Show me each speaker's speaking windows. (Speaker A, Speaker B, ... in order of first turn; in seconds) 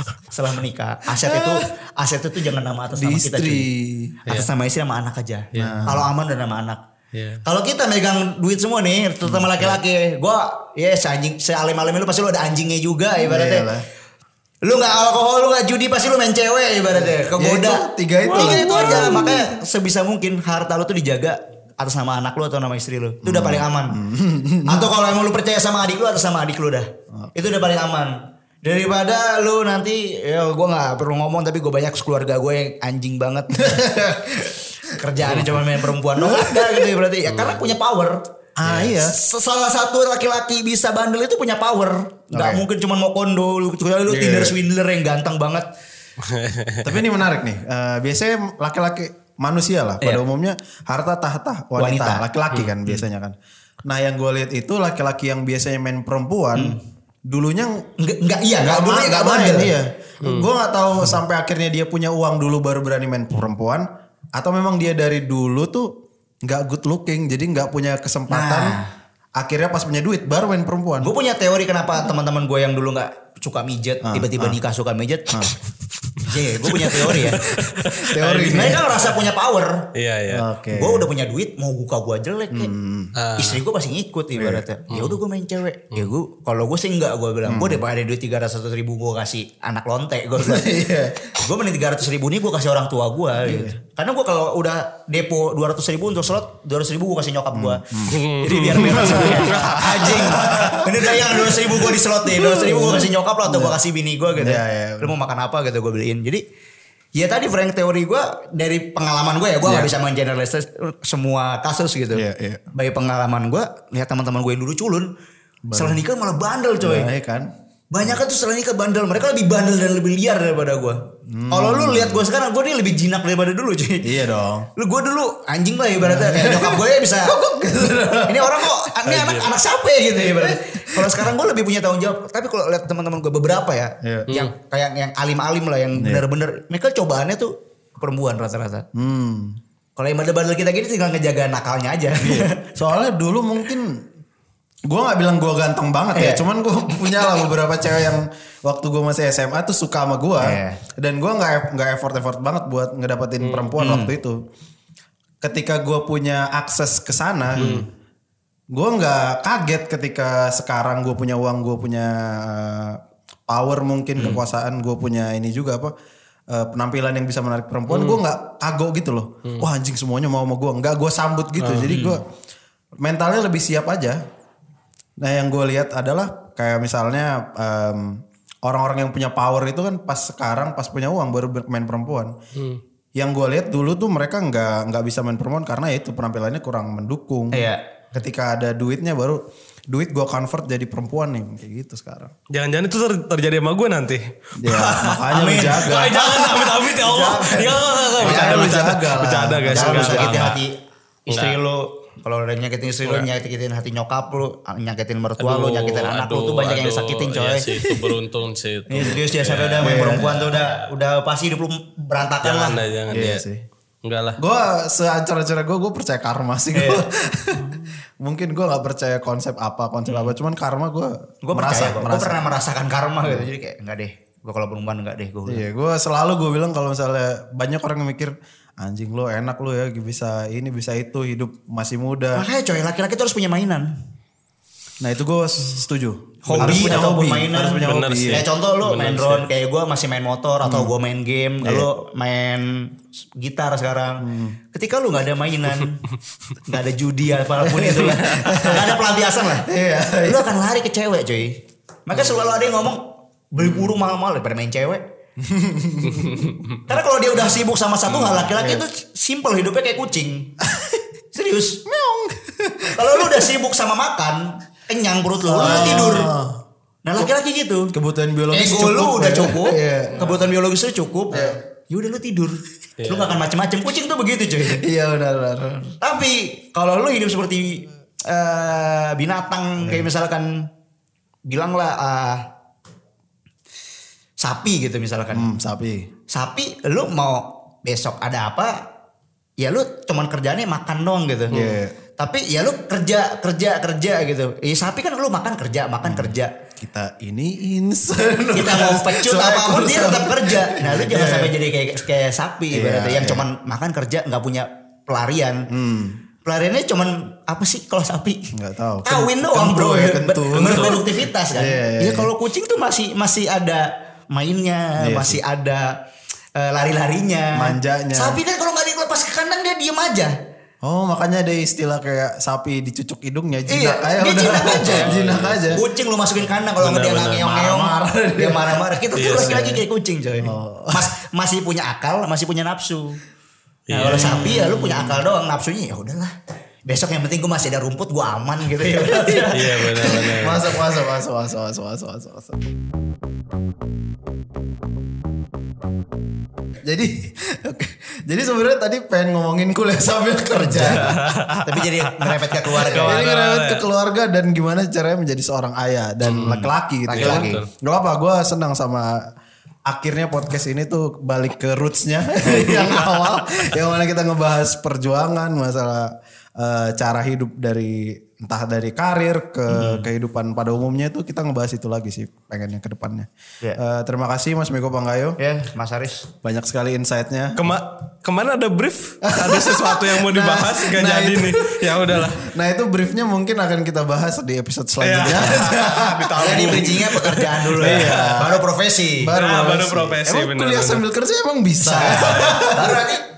Speaker A: 0.3-3.7, 4.2-6.8, 7.4-13.7, 14.6-24.0, 24.7-45.7, 51.8-52.2, 58.0-59.7, 68.3-68.9, 71.0-75.5, 76.2-77.4, 78.2-79.9, 80.7-82.7, 83.3-90.8, 91.3-106.4, 107.1-115.1, 115.7-117.1, 117.9-124.1, 124.8-127.3, 128.2-138.8, 139.9-142.7, 146.1-146.4, 147.0-147.5, 150.4-150.8, 153.8-154.1, 157.6-157.9, 171.8-172.2, 187.5-187.8, 195.3-198.9, 199.7-200.8, 201.3-207.7, 208.9-212.8, 216.7-217.0, 221.4-225.6, 232.3-233.9, 236.4-246.0, 246.6-249.7, 250.2-255.0, 256.9-260.5, 261.3-261.8, 262.9-266.3, 267.0-267.9, 268.5-274.8, 276.0-280.7, 281.5-282.4, 284.4-285.5, 286.3-288.9, 289.6-291.6, 292.2-296.5, 298.5-305.7, 306.4-308.5, 309.0-315.9, 316.5-320.3, 323.7-325.1, 325.7-333.2, 333.9-336.3, 336.9-340.4, 350.8-351.1, 351.6-353.3, 356.4-357.6, 369.7-370.1, 375.4-376.3, 385.3-385.8, 386.4-389.3, 391.8-393.2
Speaker B: 1.1-1.7, 2.9-4.2, 5.5-6.1, 13.2-13.8, 17.0-19.6, 23.2-24.9, 33.6-34.2, 36.2-36.9, 38.6-39.2, 42.3-42.6, 44.1-44.5, 46.8-53.3, 53.9-57.9, 58.6-68.8, 69.4-71.1, 74.0-74.6, 75.3-75.5, 77.4-78.9, 80.3-81.1, 82.5-83.1, 84.4-84.6, 87.5-87.8, 90.4-91.3, 93.4-93.8, 97.5-98.2, 98.7-103.8, 104.4-105.1, 109.6-109.9, 112.1-112.6, 115.7-116.0, 116.8-117.5, 121.3-122.2, 124.0-124.7, 126.0-128.9, 130.3-131.2, 134.0-134.3, 135.9-136.2, 138.9-139.6, 142.2-144.0, 144.9-154.4, 155.4-157.8, 158.7-165.9, 166.5-172.2, 173.0-174.2, 175.2-182.3, 183.2-192.3, 194.6-200.4, 209.8-210.3, 213.1-213.6, 214.4-222.4, 225.4-232.5, 235.0-238.4, 240.6-240.9, 241.6-241.9, 244.2-244.6, 247.6-248.9, 249.7-250.5, 253.6-253.9, 255.4-256.6, 258.1-258.9, 260.6-261.0, 261.9-263.5, 265.4-266.6, 267.9-270.4, 271.3-271.6, 274.8-275.9, 279.8-280.1, 285.3-286.1, 291.5-291.9, 296.0-301.5, 302.7-303.4, 305.7-306.2, 308.5-312.3, 315.0-315.4, 317.5-318.4, 320.8-325.8, 327.4-329.7, 330.4-331.1, 334.0-335.0, 339.1-342.6, 346.8-351.4, 352.9-359.2, 359.9-375.4, 376.4-377.6, 379.2-386.9, 387.8-388.6, 389.2-393.1
Speaker C: 5.5-6.0, 7.1-7.4, 18.4-18.9, 37.3-37.6, 46.2-47.0, 76.7-79.0, 79.9-80.4, 83.2-83.6, 84.9-85.2, 98.1-100.3, 129.1-129.5, 153.4-153.7, 157.6-157.8, 167.9-168.2, 171.6-171.9, 182.5-182.8, 192.5-200.6, 201.3-201.6, 205.4-210.9, 212.4-213.4, 214.0-214.4, 236.5-236.9, 237.7-239.4, 256.1-256.8, 265.7-266.2, 273.0-273.4, 310.6-311.0, 324.9-325.7, 326.8-327.5, 329.1-329.8, 333.9-335.0, 339.5-340.6, 350.8-353.8, 356.3-356.5, 357.1-357.7, 362.8-363.4, 377.6-382.5, 385.0-388.3, 389.4-391.0, 392.0-392.6